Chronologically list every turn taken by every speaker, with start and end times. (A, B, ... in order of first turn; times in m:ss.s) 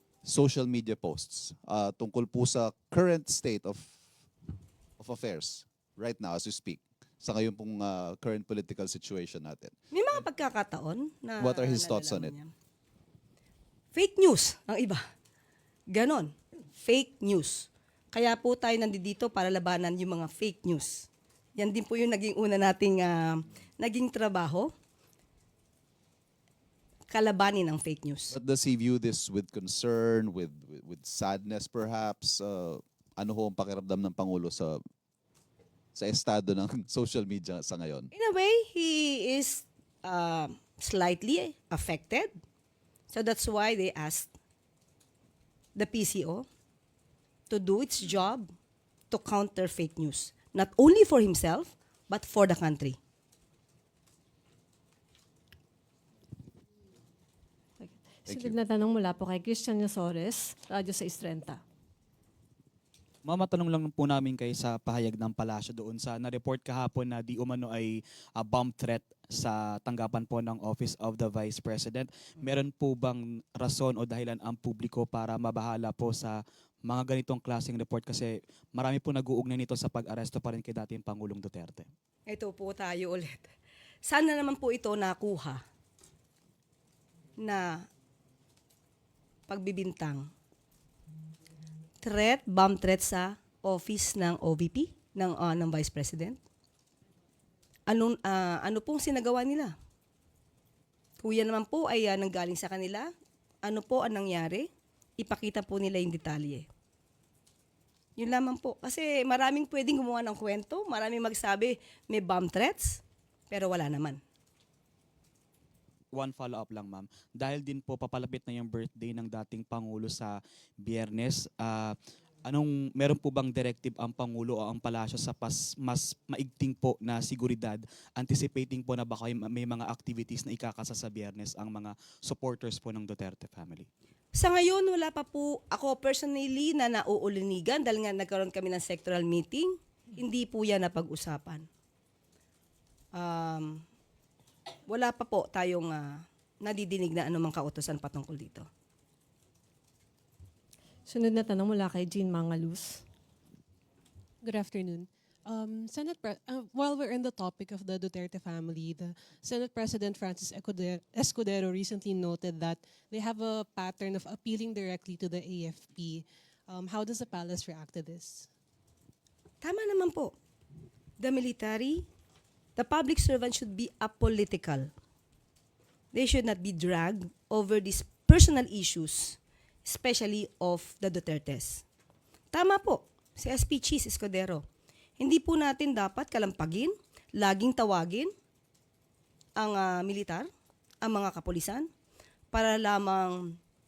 0:00.2-0:04.0 A
0:05.0-0:09.7 A
0:09.9-0:12.5 B
0:11.4-0:12.3 A
0:13.9-0:15.0 B
0:15.9-0:24.7 B
0:27.1-0:28.3 B
0:28.3-0:34.8 A
0:35.9-0:38.1 A
0:38.1-0:42.3 B
0:43.1-0:44.3 B
0:45.8-0:46.5 B
0:47.5-0:48.5 B
0:49.1-0:53.0 B
0:57.8-1:01.6 C
0:58.3-0:58.5 A
1:03.2-1:21.9 D
1:22.3-1:23.5 B
1:24.0-1:25.6 B
1:27.4-1:27.8 B
1:29.5-1:30.3 B
1:32.0-1:36.4 B
1:37.9-1:39.7 B
1:41.2-1:43.1 B
1:43.6-1:46.7 B
1:48.2-1:54.2 B
1:56.1-2:13.9 D
2:14.3-2:21.6 B
2:23.1-2:23.8 B
2:24.9-2:28.6 B
2:31.1-2:33.0 C
2:34.4-2:48.5 E
2:49.6-2:50.3 B
2:51.2-2:52.1 B
2:52.8-2:54.9 B
2:56.1-3:01.8 B
3:02.5-3:04.6 B
3:05.2-3:08.3 B
3:09.6-3:10.5 B
3:11.0-3:11.9 B
3:12.5-3:13.6 B